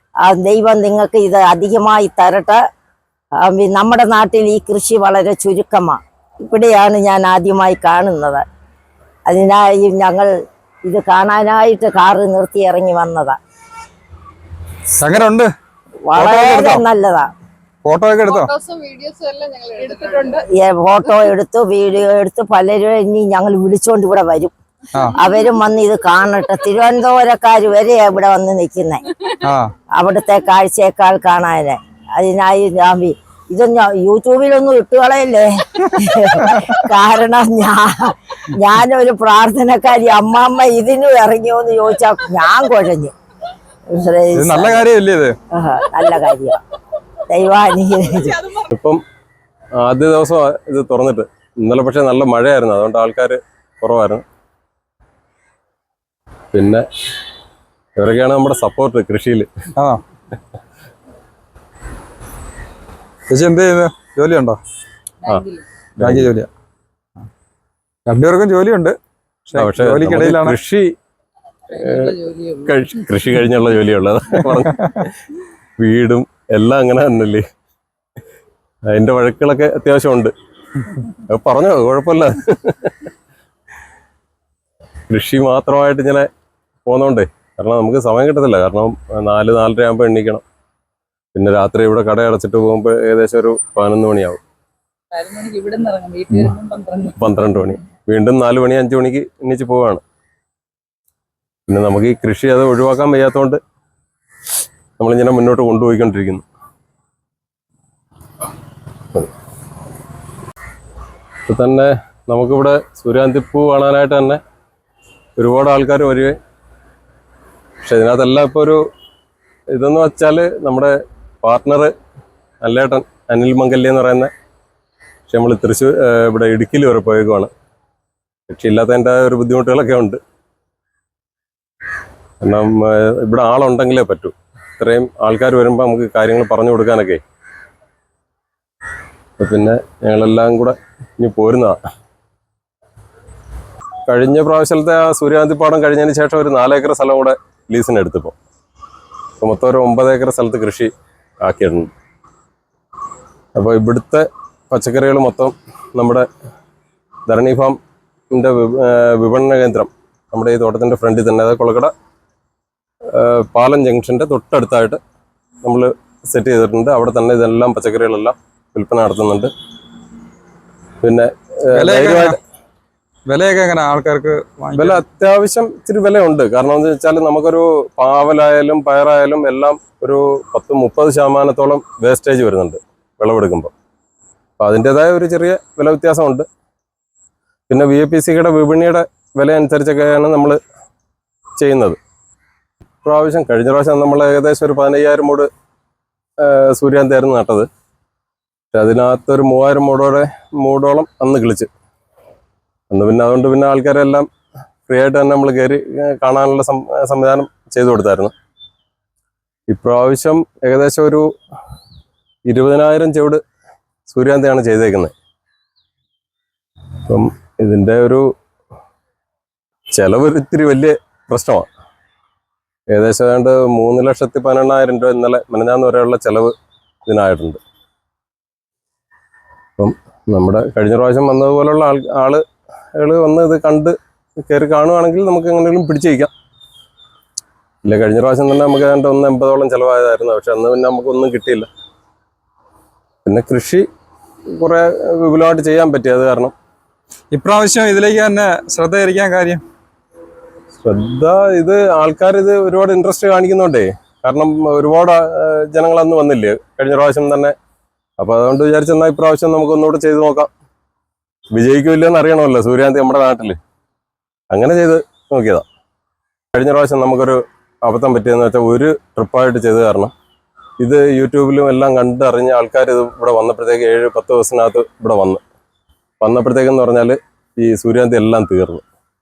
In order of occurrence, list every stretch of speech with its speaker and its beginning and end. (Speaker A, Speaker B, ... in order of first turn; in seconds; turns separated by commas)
Speaker A: 0.2-2.6, Speaker A: 3.4-8.4, Speaker A: 9.3-10.3, Speaker A: 10.9-13.4, Speaker B: 14.9-15.5, Speaker A: 16.1-17.3, Speaker B: 16.1-16.8, Speaker B: 17.9-18.5, Speaker C: 18.3-20.4, Speaker A: 20.6-24.5, Speaker A: 25.1-29.0, Speaker B: 29.4-29.7, Speaker A: 30.0-43.1, Speaker B: 36.4-36.8, Speaker A: 43.9-44.9, Speaker B: 44.4-45.4, Speaker A: 45.5-46.6, Speaker A: 47.3-48.4, Speaker D: 48.7-49.0, Speaker D: 49.8-54.2, Speaker D: 56.5-56.8, Speaker D: 58.0-59.5, Speaker B: 63.3-64.6, Speaker C: 65.2-65.7, Speaker D: 66.0-66.3, Speaker B: 66.0-66.5, Speaker B: 68.1-69.0, Speaker B: 69.5-70.6, Speaker D: 69.6-70.9, Speaker C: 71.7-72.8, Speaker D: 71.7-75.1, Speaker B: 74.5-75.0, Speaker D: 75.8-77.4, Speaker D: 78.9-80.3, Speaker D: 81.1-83.0, Speaker D: 85.1-86.3, Speaker D: 86.9-90.4, Speaker D: 91.3-94.4, Speaker C: 95.1-97.3, Speaker D: 97.2-100.0, Speaker D: 101.7-103.6, Speaker D: 105.0-106.4, Speaker D: 111.5-114.4, Speaker D: 115.4-116.4, Speaker D: 117.8-118.8, Speaker D: 119.7-121.9, Speaker D: 122.6-124.3, Speaker D: 125.3-127.5, Speaker D: 128.5-130.2, Speaker D: 132.4-137.2, Speaker D: 139.4-141.8, Speaker D: 144.1-148.4, Speaker D: 149.4-150.9, Speaker D: 151.4-151.9, Speaker D: 153.6-156.3, Speaker D: 157.3-157.8, Speaker D: 158.3-161.9, Speaker D: 163.1-165.0, Speaker D: 165.6-169.5, Speaker D: 171.0-172.4, Speaker B: 171.7-172.4, Speaker B: 173.3-175.0, Speaker D: 174.8-183.7, Speaker D: 184.6-186.5, Speaker D: 187.7-190.6, Speaker D: 191.6-192.0, Speaker D: 193.0-195.5, Speaker D: 196.4-197.7, Speaker D: 198.7-201.7, Speaker D: 202.9-204.3, Speaker D: 204.9-208.3, Speaker D: 209.7-211.3, Speaker D: 212.5-213.4, Speaker D: 214.1-215.1, Speaker D: 217.1-218.3, Speaker D: 219.9-221.7, Speaker D: 222.9-226.5, Speaker D: 227.1-227.6, Speaker D: 229.8-232.4, Speaker D: 233.0-236.3, Speaker D: 237.8-241.7, Speaker D: 243.2-243.9, Speaker D: 244.5-246.5, Speaker B: 247.3-249.6, Speaker D: 250.8-257.6, Speaker D: 258.2-260.5, Speaker D: 261.6-263.6, Speaker D: 264.5-265.6, Speaker D: 266.5-270.1, Speaker D: 270.8-275.4, Speaker D: 276.2-278.8